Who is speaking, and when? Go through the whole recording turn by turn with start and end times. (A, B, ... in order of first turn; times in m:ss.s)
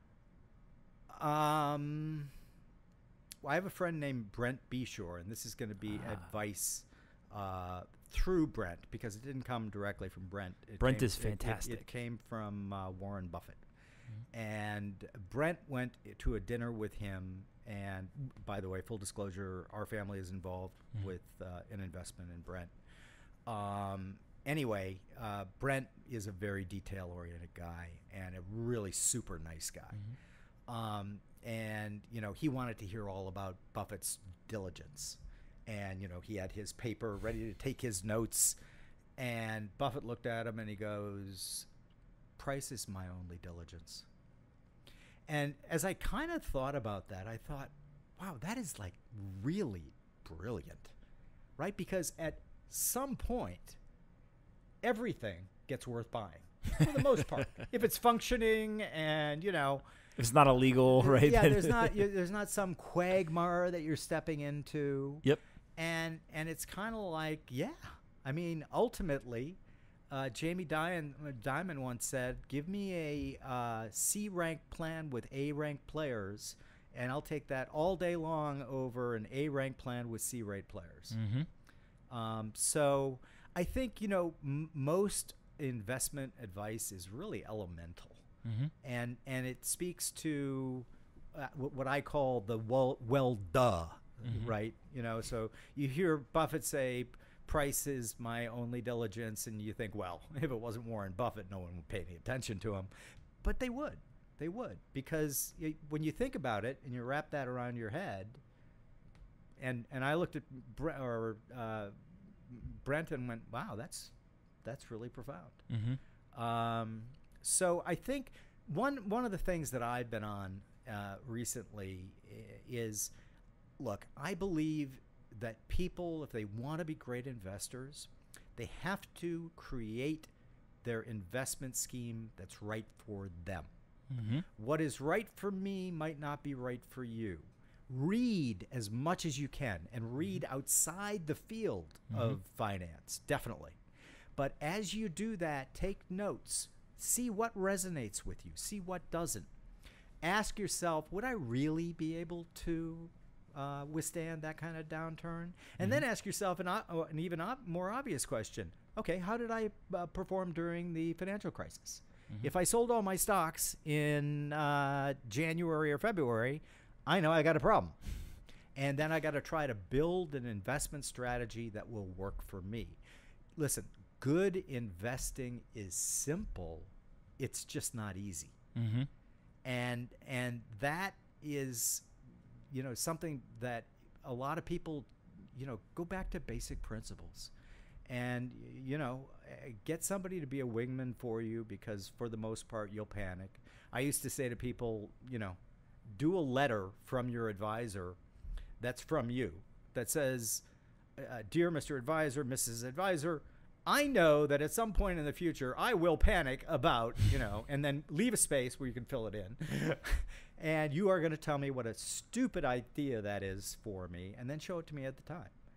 0:01.1-0:02.3 A
0:03.4-0:13.6 A
0:10.8-0:11.9 B
0:14.3-0:22.7 A
0:23.5-0:30.0 A
0:30.7-0:38.6 A
0:39.2-0:41.7 A
0:42.4-0:44.1 A
0:45.3-0:51.0 A
0:51.6-0:53.8 A
0:54.8-0:59.8 A
1:00.2-1:02.0 B
1:01.0-1:05.2 A
1:05.8-1:09.6 A
1:10.1-1:21.2 A
1:21.1-1:21.5 B
1:22.1-1:28.2 A
1:28.4-1:28.7 B
1:28.8-1:42.9 A
1:43.4-1:48.4 A
1:49.6-1:51.9 A
1:52.4-1:54.1 A
1:54.6-1:55.6 A
1:55.7-1:56.0 B
1:56.3-2:03.1 A
2:03.8-2:10.3 A
2:10.8-2:13.7 A
2:14.1-2:14.4 B
2:14.6-2:23.8 A
2:22.1-2:22.4 B
2:24.4-2:29.5 A
2:30.2-2:48.0 A
2:48.8-2:53.0 A
2:53.6-2:58.6 A
2:58.8-2:59.1 B
2:59.6-3:02.1 A
3:02.7-3:07.5 A
3:08.1-3:15.6 A
3:16.1-3:18.2 A
3:18.8-3:20.6 A
3:21.2-3:35.5 A